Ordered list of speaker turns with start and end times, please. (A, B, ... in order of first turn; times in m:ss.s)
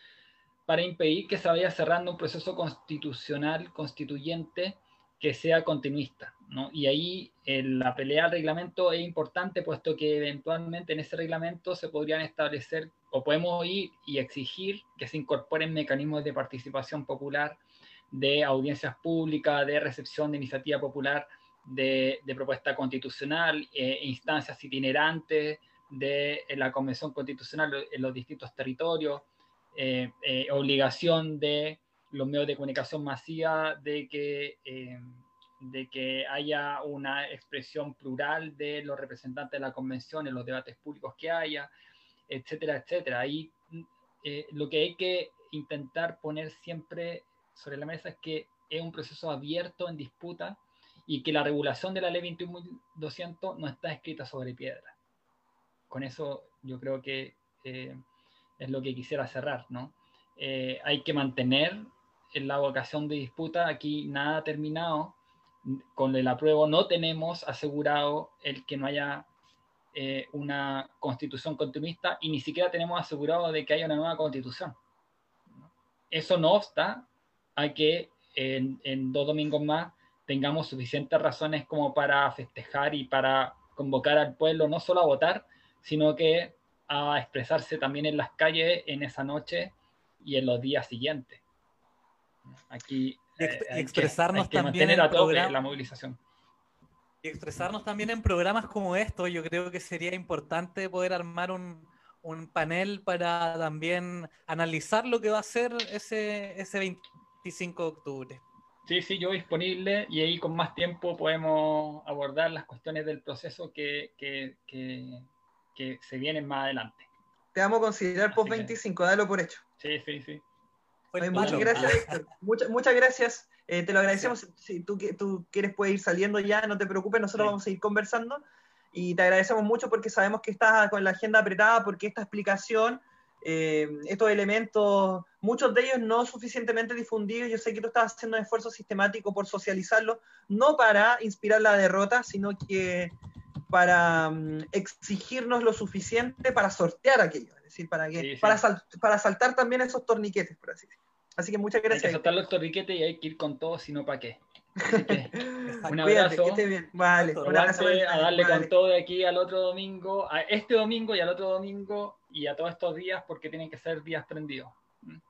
0:00.7-0:17.6 A
0:18.1-0:41.7 A
0:42.3-0:54.9 A
0:55.9-0:58.0 A
0:58.6-1:09.3 A
1:09.9-1:14.8 A
1:15.6-1:31.4 A
1:32.5-1:36.2 A
1:33.4-1:35.5 B
1:37.2-1:48.4 B
1:48.8-1:57.1 A
1:57.5-1:59.6 C
1:58.3-1:58.8 A
1:59.8-2:00.4 A
2:01.1-2:02.2 B
2:01.2-2:08.4 C
2:01.3-2:02.0 A
2:04.1-2:04.4 A
2:08.9-2:23.1 C
2:23.7-2:32.4 C
2:28.2-2:28.6 A
2:31.9-2:36.6 A
2:34.8-2:38.7 C
2:35.6-2:35.9 B
2:37.0-2:37.5 B
2:37.4-2:45.2 A